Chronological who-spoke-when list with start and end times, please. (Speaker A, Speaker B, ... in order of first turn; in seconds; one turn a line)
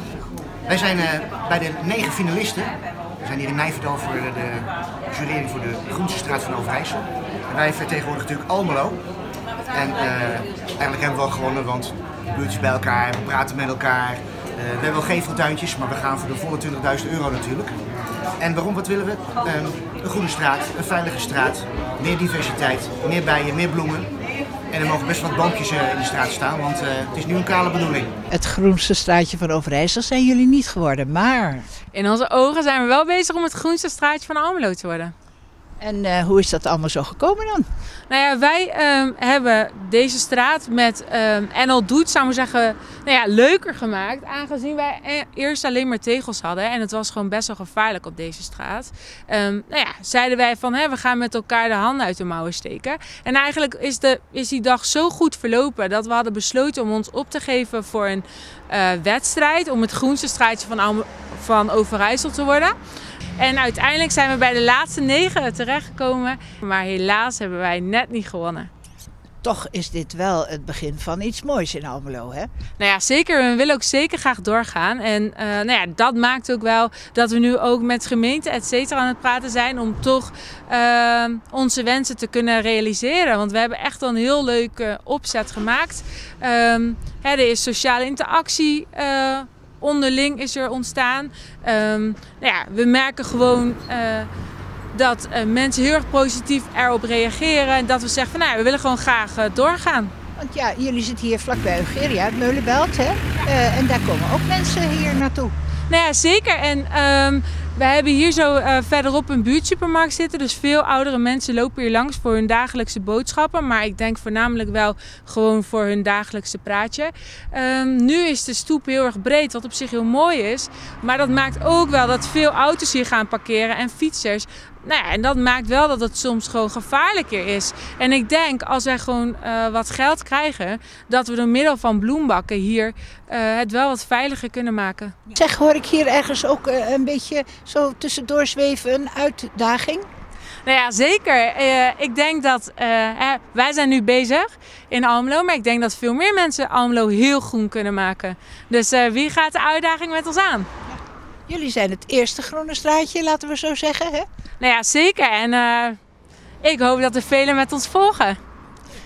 Speaker A: 0.7-9.0
Speaker A: 9.7-17.8
Speaker A: 18.4-24.1
Speaker A: 24.7-28.1
Speaker B: 28.3-31.7
Speaker C: 31.9-35.1
Speaker B: 35.8-37.7
Speaker C: 38.1-62.7
Speaker C: 63.4-68.7
Speaker B: 69.4-72.5
Speaker C: 72.8-94.3
Speaker C: 94.9-100.1
Speaker B: 100.4-105.5
Speaker C: 105.9-135.1
Speaker B: 135.3-140.1
Speaker C: 140.6-150.7
Speaker B: 151.5-154.3
Speaker C: 154.6-156.0
Speaker C: 156.6-158.4